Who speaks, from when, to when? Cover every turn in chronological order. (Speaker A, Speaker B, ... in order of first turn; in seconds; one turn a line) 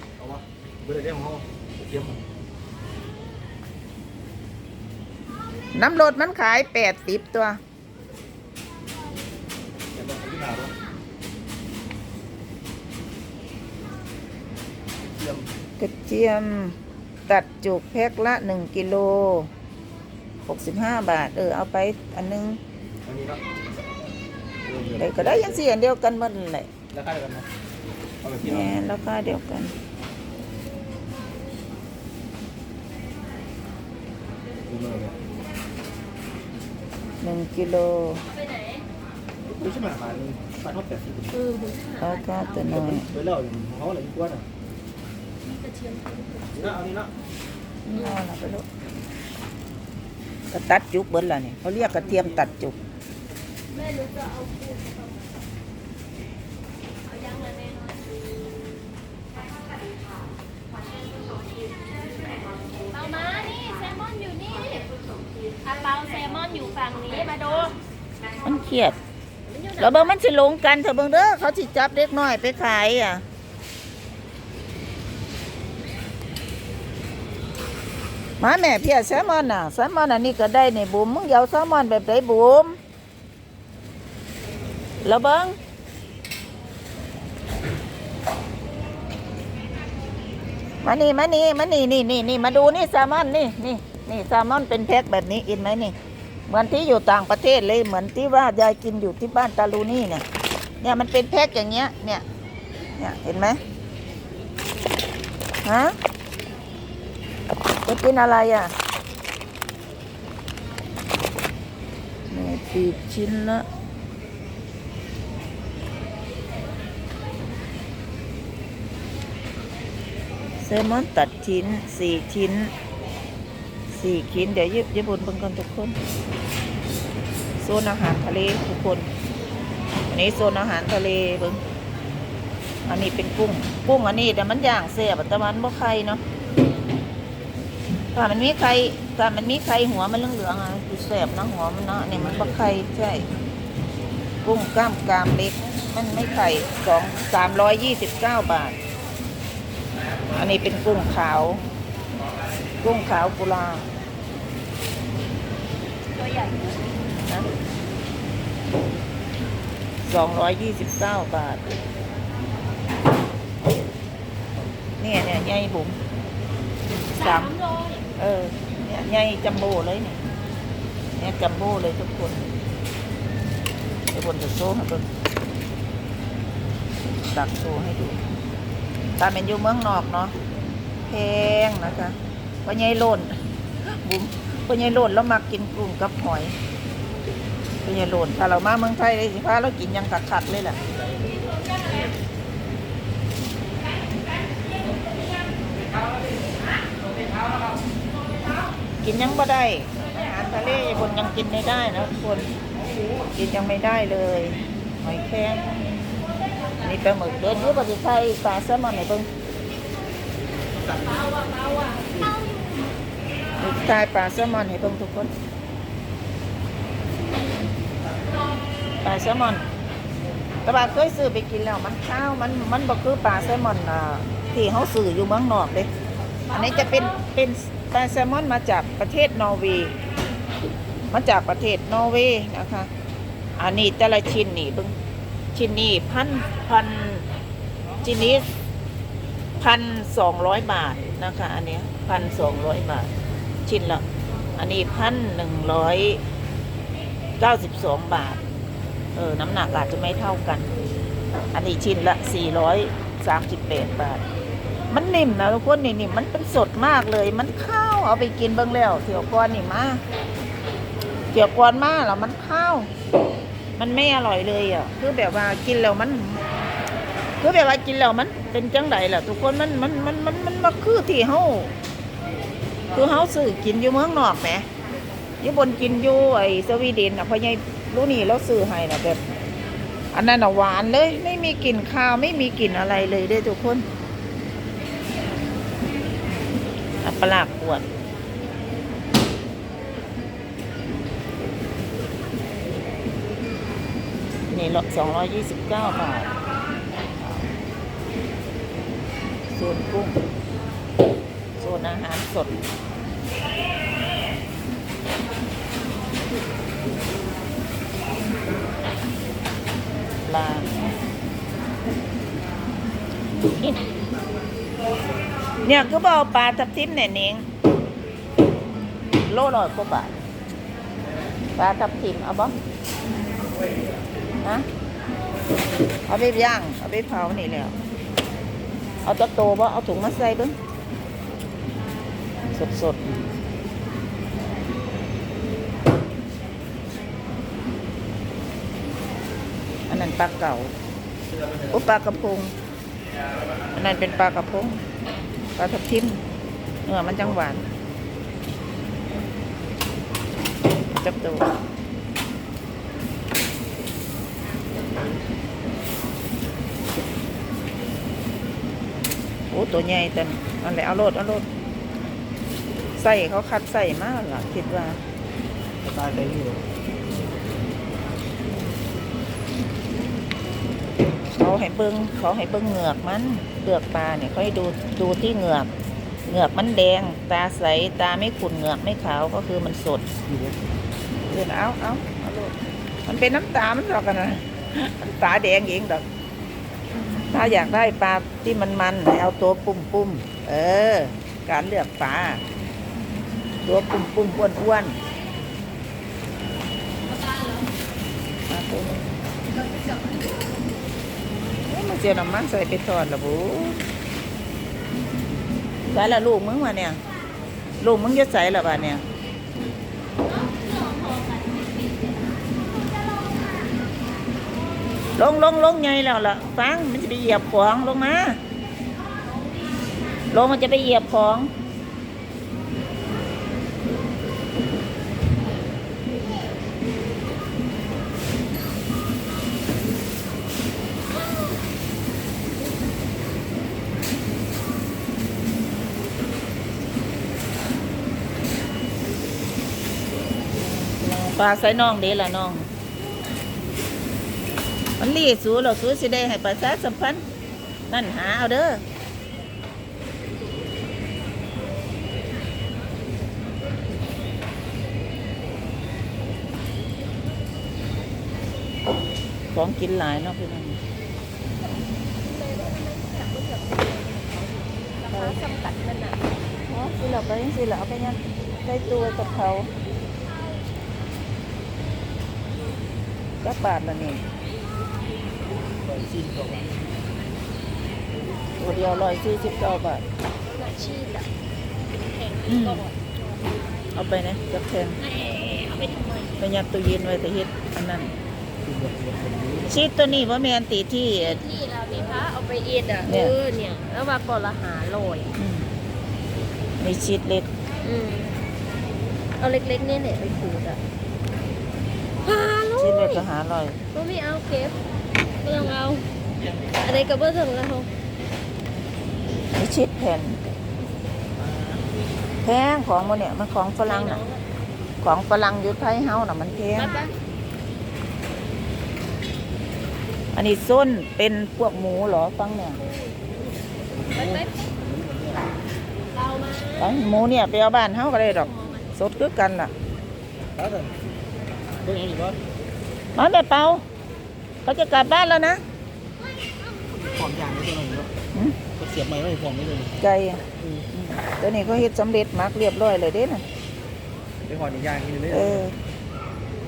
Speaker A: 0.2-2.2
Speaker B: 5.7-7.6
Speaker A: 9.9-10.7
Speaker A: 15.2-15.5
Speaker B: 15.8-16.8
Speaker B: 17.3-19.5
Speaker B: 20.5-22.6
Speaker A: 23.0-23.4
Speaker A: 24.6-25.6
Speaker B: 25.0-26.7
Speaker A: 26.9-27.5
Speaker A: 28.2-28.8
Speaker B: 28.4-29.7
Speaker A: 34.7-35.2
Speaker B: 37.2-38.2
Speaker C: 38.5-38.8
Speaker A: 39.5-41.4
Speaker C: 41.3-42.5
Speaker B: 42.0-43.1
Speaker A: 42.7-44.5
Speaker C: 45.5-46.5
Speaker A: 46.5-47.1
Speaker B: 47.9-48.6
Speaker B: 50.5-52.7
Speaker C: 53.7-55.3
Speaker C: 57.0-58.0
Speaker C: 62.9-64.9
Speaker C: 65.6-67.8
Speaker B: 68.4-69.0
Speaker C: 69.5-70.1
Speaker B: 69.8-73.2
Speaker B: 78.4-82.8
Speaker B: 85.0-85.5
Speaker B: 90.8-95.9
Speaker B: 96.5-100.2
Speaker B: 100.8-102.2
Speaker B: 103.0-103.6
Speaker B: 105.6-106.0
Speaker B: 107.8-108.7
Speaker B: 112.3-113.7
Speaker B: 120.6-122.7
Speaker B: 123.9-126.0
Speaker B: 127.6-129.1
Speaker B: 130.1-131.6
Speaker B: 132.8-136.2
Speaker B: 138.1-143.3
Speaker B: 144.4-148.8
Speaker B: 150.3-151.6
Speaker B: 152.8-153.9
Speaker C: 156.2-156.8
Speaker B: 160.0-161.6
Speaker B: 165.0-165.9
Speaker B: 167.1-167.5
Speaker C: 167.1-168.0
Speaker B: 168.2-170.2
Speaker B: 171.2-172.4
Speaker B: 174.1-175.1
Speaker B: 177.3-178.2
Speaker B: 179.2-180.3
Speaker B: 181.1-186.6
Speaker B: 187.8-190.8
Speaker B: 199.0-202.5
Speaker B: 203.3-205.8
Speaker B: 206.8-209.3
Speaker A: 210.9-211.2
Speaker B: 213.6-215.3
Speaker B: 219.0-219.6
Speaker B: 220.6-225.9
Speaker B: 226.5-229.9
Speaker B: 231.1-232.9
Speaker B: 233.6-234.9
Speaker B: 235.5-237.3
Speaker B: 238.0-238.5
Speaker B: 239.6-243.1
Speaker B: 243.7-244.0
Speaker B: 244.6-246.2
Speaker B: 247.4-248.4
Speaker B: 249.1-250.7
Speaker B: 251.5-254.2
Speaker B: 254.9-260.0
Speaker B: 261.3-262.9
Speaker B: 263.8-266.4
Speaker B: 267.4-271.7
Speaker B: 272.9-274.7
Speaker B: 275.4-279.2
Speaker B: 280.1-283.9
Speaker B: 287.0-287.8
Speaker B: 294.5-296.3
Speaker B: 297.2-297.5
Speaker B: 299.5-300.2
Speaker B: 301.6-302.6
Speaker B: 310.2-310.7
Speaker B: 313.4-313.8
Speaker B: 315.6-317.5
Speaker B: 319.3-320.2
Speaker B: 321.6-322.6
Speaker B: 326.1-327.7
Speaker B: 329.0-330.5
Speaker B: 332.5-333.1
Speaker B: 339.9-340.7
Speaker B: 341.7-342.5
Speaker B: 343.7-344.8
Speaker B: 345.6-346.2
Speaker B: 346.9-347.6
Speaker B: 350.9-351.5
Speaker B: 359.5-361.5
Speaker B: 363.0-365.0
Speaker A: 365.8-366.6
Speaker B: 371.3-375.7
Speaker B: 376.3-380.0
Speaker A: 380.3-380.6
Speaker B: 381.3-382.5
Speaker B: 383.1-386.0
Speaker B: 387.3-392.4
Speaker B: 393.6-395.0
Speaker B: 398.5-399.0
Speaker B: 401.7-403.8
Speaker B: 405.9-407.0
Speaker B: 407.8-409.0
Speaker C: 410.3-412.1
Speaker B: 415.2-418.4
Speaker B: 420.3-421.5
Speaker B: 441.0-442.7
Speaker B: 445.0-447.2
Speaker B: 447.9-448.8
Speaker B: 459.5-460.8
Speaker C: 462.2-466.3
Speaker B: 465.1-465.4
Speaker B: 466.7-469.7
Speaker B: 473.4-474.2
Speaker A: 475.8-476.8
Speaker B: 478.6-480.0
Speaker C: 480.5-481.3
Speaker C: 482.0-483.0
Speaker B: 482.5-482.9
Speaker B: 483.9-485.0
Speaker C: 485.0-486.3
Speaker B: 486.4-488.1
Speaker A: 488.6-489.7
Speaker B: 489.6-491.4
Speaker C: 491.2-495.3
Speaker B: 493.1-493.4
Speaker B: 495.4-495.7
Speaker B: 496.8-497.5
Speaker C: 497.8-498.4
Speaker C: 499.4-500.8
Speaker C: 502.2-503.2
Speaker B: 502.7-503.8
Speaker C: 503.9-504.8
Speaker C: 505.4-506.1
Speaker C: 506.7-507.9
Speaker B: 509.5-510.4
Speaker A: 511.5-511.8
Speaker B: 512.4-514.2
Speaker C: 513.9-514.4
Speaker B: 515.0-517.1
Speaker C: 516.8-517.1
Speaker B: 520.3-522.8
Speaker A: 523.9-525.5
Speaker C: 524.1-524.5
Speaker C: 526.1-527.0
Speaker B: 526.7-529.7
Speaker C: 528.5-528.8
Speaker A: 530.5-531.0
Speaker A: 531.7-532.4
Speaker B: 533.1-533.8
Speaker B: 534.6-535.6
Speaker A: 536.9-538.1
Speaker A: 538.8-540.0
Speaker B: 540.0-543.4
Speaker A: 544.4-545.6
Speaker B: 545.3-545.7